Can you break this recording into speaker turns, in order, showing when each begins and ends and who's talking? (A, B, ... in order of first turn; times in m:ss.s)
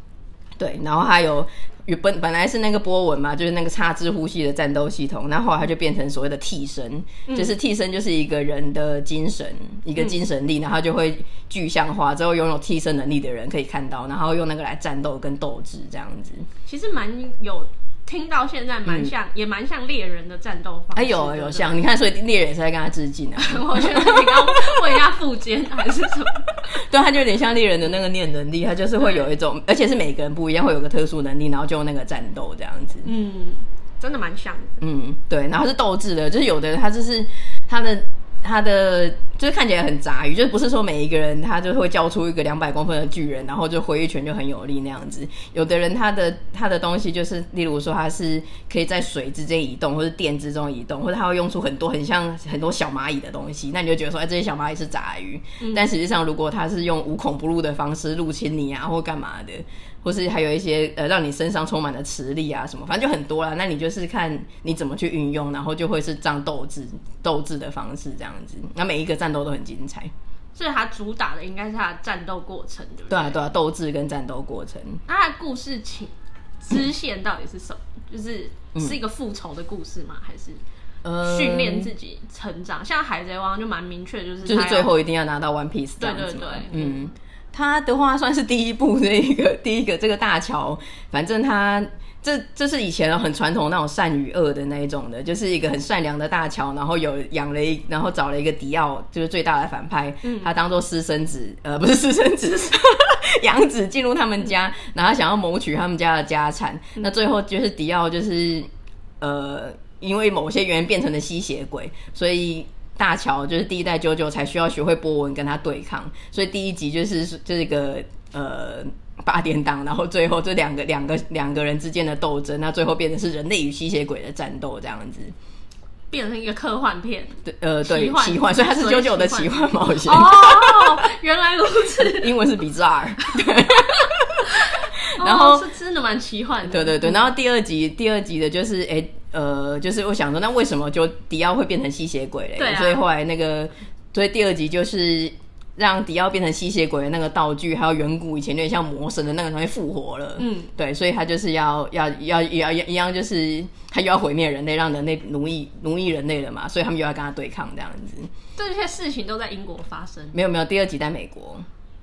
0:00.6-0:16.5 A
0:07.3-0:07.5 B
0:16.6-0:21.8 B
0:18.8-0:19.1 A
0:20.9-0:25.0 A
0:23.4-0:26.7 B
0:26.7-0:33.1 A
0:29.0-0:29.3 B
0:33.0-0:34.8 B
0:34.8-1:10.1 A
0:55.6-0:55.8 B
1:10.5-1:13.4 B
1:13.1-1:15.0 A
1:15.1-1:20.6 B
1:21.0-1:21.9 A
1:21.2-1:24.9 B
1:24.4-1:48.7 A
1:26.0-1:27.1 B
1:40.2-1:40.5 B
1:49.2-2:05.3 A
2:06.1-2:12.3 B
2:07.4-2:11.1 A
2:12.0-2:15.7 A
2:14.5-2:17.2 B
2:16.6-2:38.3 A
2:22.6-2:23.0 B
2:30.4-2:30.7 B
2:38.6-2:40.4 B
2:40.3-2:41.6 A